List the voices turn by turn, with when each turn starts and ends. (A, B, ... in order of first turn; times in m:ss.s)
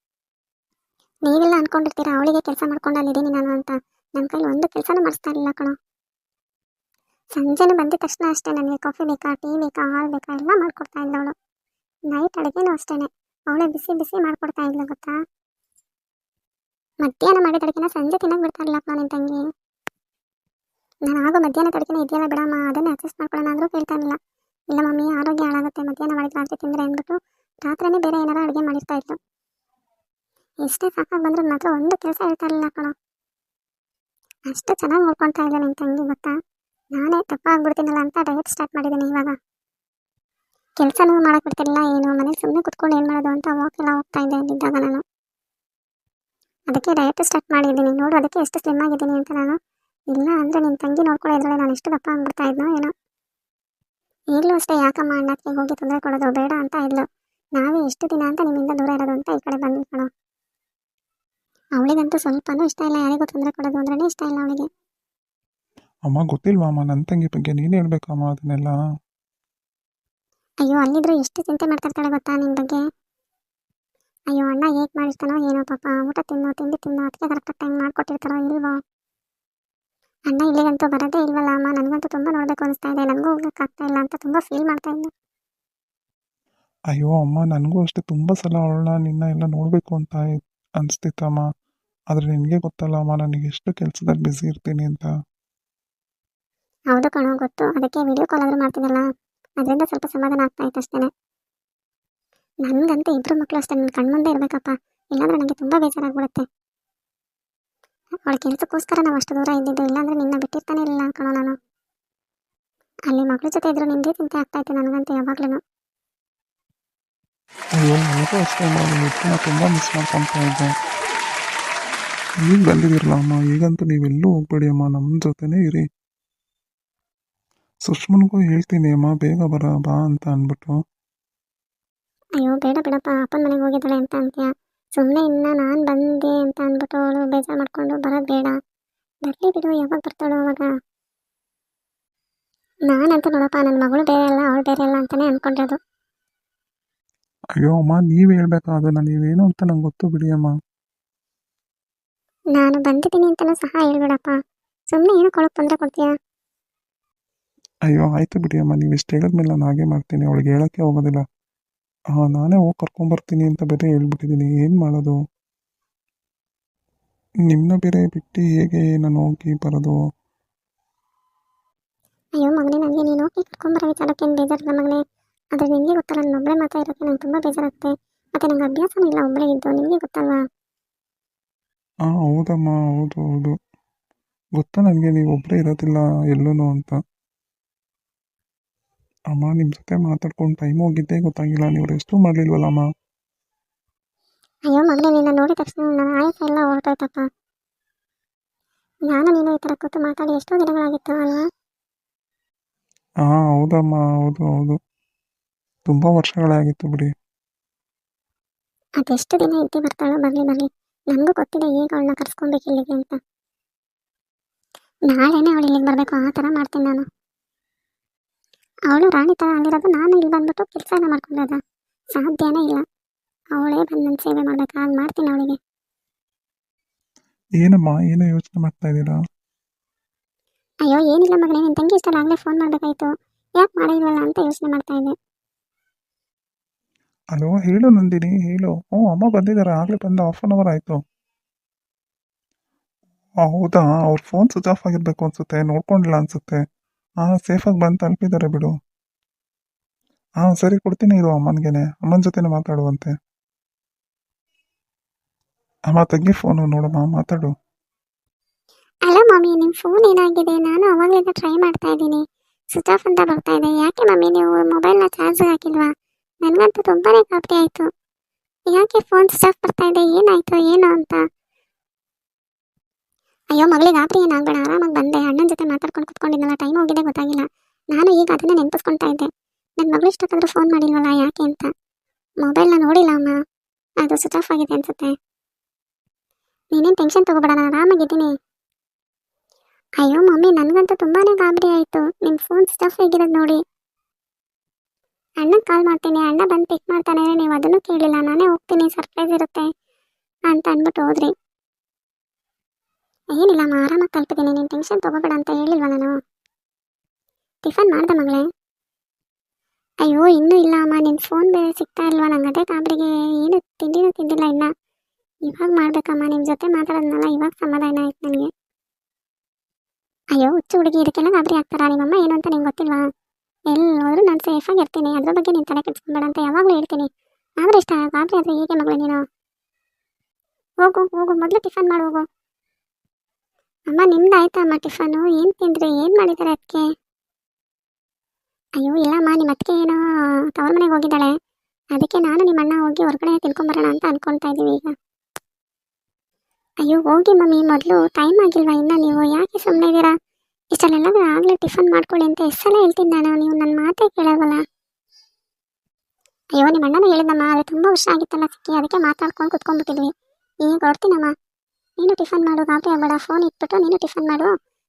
0:01.2-0:05.8 A
0:07.4-0:11.3 A
0:12.1-0:15.2 A
0:17.0-0:19.4 A
0:21.0-0:24.2 A
0:24.7-0:29.2 A
0:30.6-0:32.9 A
0:34.5-0:36.4 A
0:36.9-0:39.3 A
0:40.8-0:45.0 A
0:46.7-0:49.6 A
0:50.1-0:52.9 A
0:54.3-0:57.0 A
0:57.6-1:00.1 A
1:01.8-1:04.7 A
1:06.1-1:08.8 B
1:10.6-1:12.8 A
1:14.3-1:18.8 A
1:20.3-1:25.1 A
1:26.9-1:31.5 B
1:32.1-1:35.1 B
1:36.9-1:39.1 A
1:39.6-1:41.1 A
1:42.6-1:46.4 A
1:48.2-1:51.6 A
1:53.1-1:55.6 A
1:57.8-2:00.7 B
2:02.4-2:05.8 B
2:07.9-2:10.8 B
2:12.4-2:18.6 A
2:19.2-2:20.7 A
2:22.9-2:25.8 A
2:27.6-2:30.5 B
2:32.5-2:34.4 A
2:34.9-2:36.1 A
2:37.9-2:41.2 B
2:42.2-2:45.2 B
2:47.5-2:50.0 B
2:52.4-2:55.0 A
2:55.5-3:00.4 A
3:02.1-3:03.6 B
3:04.6-3:07.0 B
3:09.3-3:12.8 B
3:14.7-3:17.3 A
3:19.1-3:21.5 A
3:23.2-3:24.8 B
3:25.9-3:27.1 B
3:29.0-3:33.2 A
3:35.1-3:37.0 A
3:38.9-3:41.6 A
3:42.2-3:42.8 A
3:43.5-3:45.6 A
3:47.6-3:49.2 B
3:50.8-3:55.1 A
3:57.4-4:01.0 B
4:03.4-4:06.6 B
4:07.2-4:08.8 B
4:10.4-4:13.1 B
4:15.9-4:17.5 B
4:19.1-4:25.9 A
4:26.4-4:27.9 A
4:28.7-4:31.2 A
4:33.5-4:39.3 A
4:39.8-4:41.7 A
4:42.4-4:43.3 A
4:44.0-4:45.1 A
4:46.7-4:48.3 A
4:50.0-4:53.6 A
4:55.4-4:59.7 A
5:00.5-5:01.3 A
5:03.3-5:06.2 A
5:07.6-5:08.5 A
5:10.0-5:14.7 A
5:15.5-5:18.5 A
5:20.3-5:23.1 A
5:23.7-5:27.1 A
5:27.6-5:29.2 A
5:30.8-5:32.2 A
5:33.9-5:36.9 A
5:38.8-5:40.0 A
5:40.5-5:41.3 A
5:41.9-5:44.9 A
5:46.8-5:50.1 A
5:50.7-5:54.6 A
5:56.6-6:00.1 A
6:00.6-6:01.3 A
6:02.0-6:04.5 A